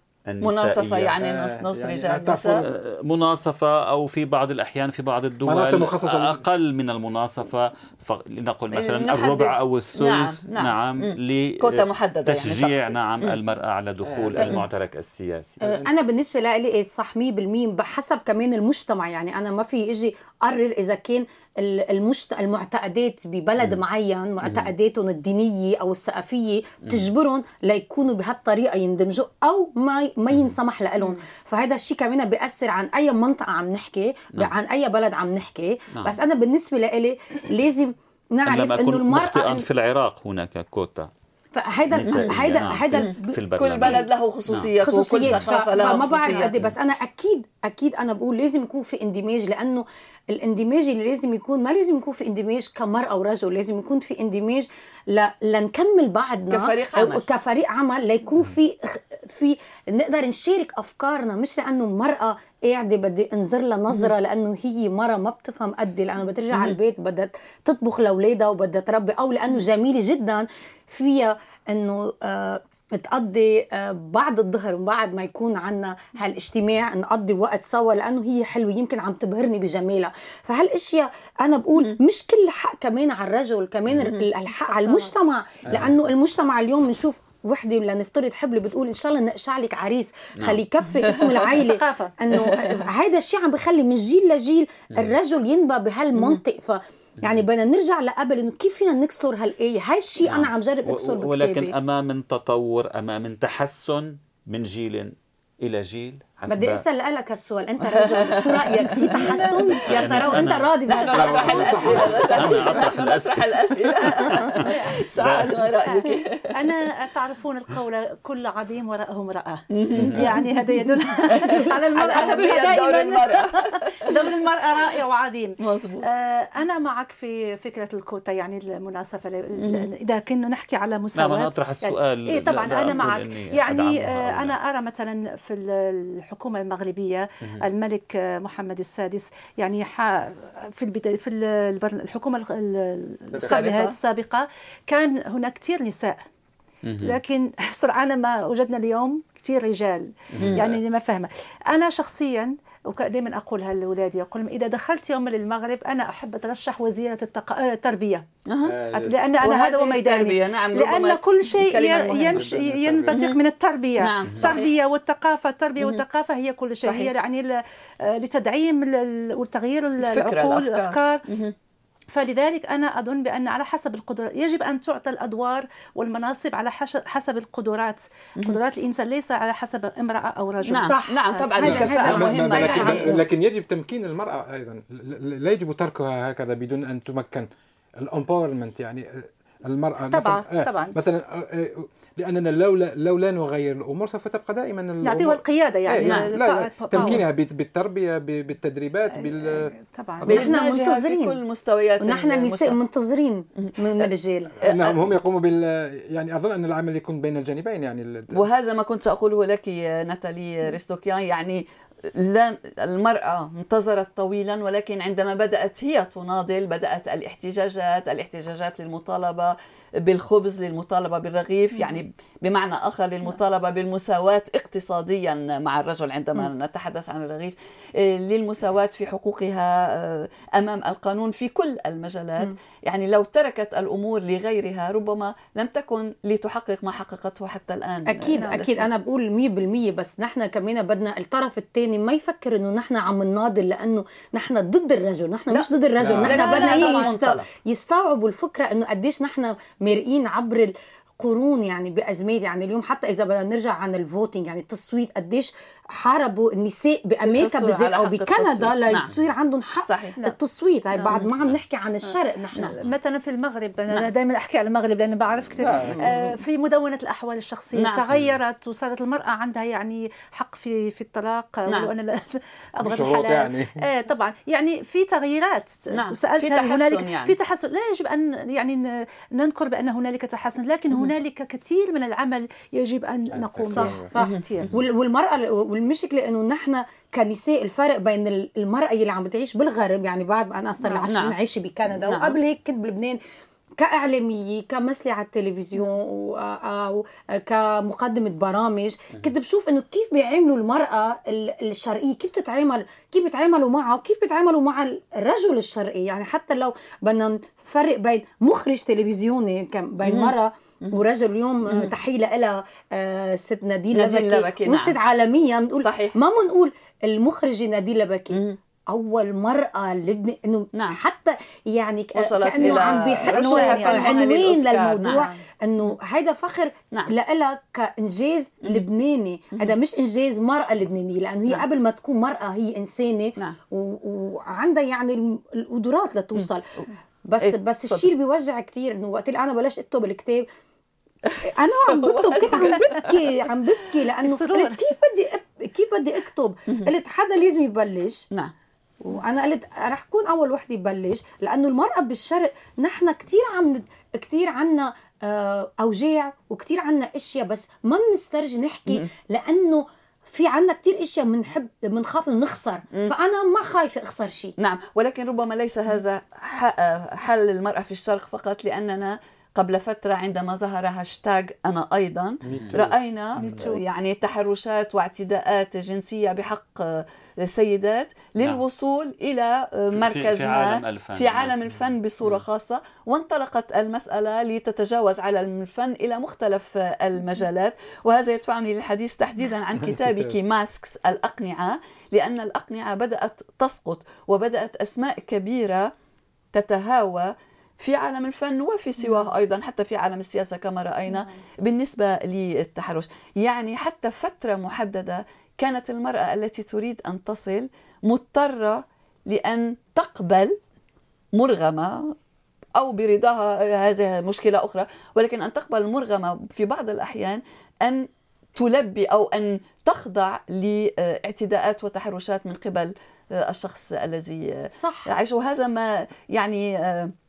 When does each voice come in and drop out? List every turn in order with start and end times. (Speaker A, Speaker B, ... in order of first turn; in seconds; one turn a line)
Speaker A: 0.3-1.1
Speaker B: 0.4-2.6
Speaker C: 1.0-2.7
Speaker A: 2.6-15.6
Speaker C: 5.5-6.5
Speaker B: 8.7-13.4
Speaker C: 14.0-14.6
Speaker C: 15.6-15.9
Speaker D: 15.6-39.7
Speaker A: 24.4-24.7
Speaker A: 38.5-41.1
Speaker D: 41.5-44.0
Speaker A: 41.9-46.7
Speaker B: 42.1-42.4
Speaker B: 43.0-46.6
Speaker D: 44.8-101.8
Speaker B: 56.5-57.2
Speaker E: 84.8-85.1
Speaker B: 91.0-91.5
Speaker E: 91.5-92.1
Speaker B: 92.3-92.8
Speaker B: 96.2-96.4
Speaker A: 100.2-106.8
Speaker D: 106.5-112.6
Speaker B: 107.9-110.3
Speaker A: 109.8-110.7
Speaker B: 110.9-116.8
Speaker C: 111.1-112.4
Speaker A: 111.3-115.7
Speaker E: 114.5-115.0
Speaker E: 115.9-146.2
Speaker B: 119.7-120.3
Speaker A: 120.0-120.4
Speaker B: 121.3-124.4
Speaker B: 125.6-126.1
Speaker B: 129.6-129.9
Speaker A: 131.2-134.6
Speaker C: 143.3-143.6
Speaker B: 143.4-143.9
Speaker A: 146.8-147.2
Speaker E: 147.0-158.3
Speaker A: 150.3-150.7
Speaker B: 158.5-158.8
Speaker C: 158.6-159.2
Speaker E: 158.9-171.2
Speaker B: 159.4-162.5
Speaker C: 162.3-163.3
Speaker B: 163.1-163.4
Speaker B: 164.0-164.7
Speaker B: 166.8-167.1
Speaker B: 170.0-171.5
Speaker E: 172.1-181.5
Speaker B: 180.7-183.2
Speaker D: 180.7-183.2
Speaker C: 181.6-187.5
Speaker C: 188.0-200.4
Speaker E: 190.1-190.9
Speaker E: 195.0-197.3
Speaker B: 196.0-196.3
Speaker E: 199.2-200.4
Speaker D: 200.3-201.4
Speaker B: 200.3-202.8
Speaker D: 202.0-204.9
Speaker B: 203.6-204.1
Speaker C: 204.6-208.4
Speaker B: 204.6-204.9
Speaker B: 208.3-238.8
Speaker D: 238.1-262.8
Speaker E: 238.4-238.6
Speaker C: 246.0-246.5
Speaker B: 246.2-247.5
Speaker E: 246.5-247.1
Speaker B: 257.2-259.1
Speaker B: 259.8-260.2
Speaker E: 262.7-284.7
Speaker C: 265.6-266.4
Speaker B: 265.8-266.1
Speaker B: 267.8-268.0
Speaker A: 268.1-268.4
Speaker B: 271.7-271.9
Speaker C: 272.8-273.8
Speaker B: 275.9-277.4
Speaker C: 283.5-284.1
Speaker D: 283.7-293.2
Speaker B: 291.1-291.4
Speaker B: 292.1-292.4
Speaker D: 293.8-336.7
Speaker B: 310.0-311.0
Speaker B: 313.9-315.0
Speaker B: 315.8-316.2
Speaker B: 320.7-321.0
Speaker B: 322.1-325.3
Speaker E: 323.2-324.4
Speaker E: 325.1-325.4
Speaker D: 337.2-340.5
Speaker B: 337.4-338.1
Speaker B: 341.3-343.1
Speaker D: 341.4-348.3
Speaker E: 342.4-343.1
Speaker E: 344.2-344.8
Speaker D: 349.0-364.6
Speaker B: 364.6-395.9
Speaker C: 372.4-373.7
Speaker E: 373.4-373.8
Speaker A: 379.9-382.4
Speaker C: 389.8-390.4
Speaker B: 396.5-410.6
Speaker B: 411.4-412.1
Speaker B: 412.8-427.1
Speaker D: 424.8-425.1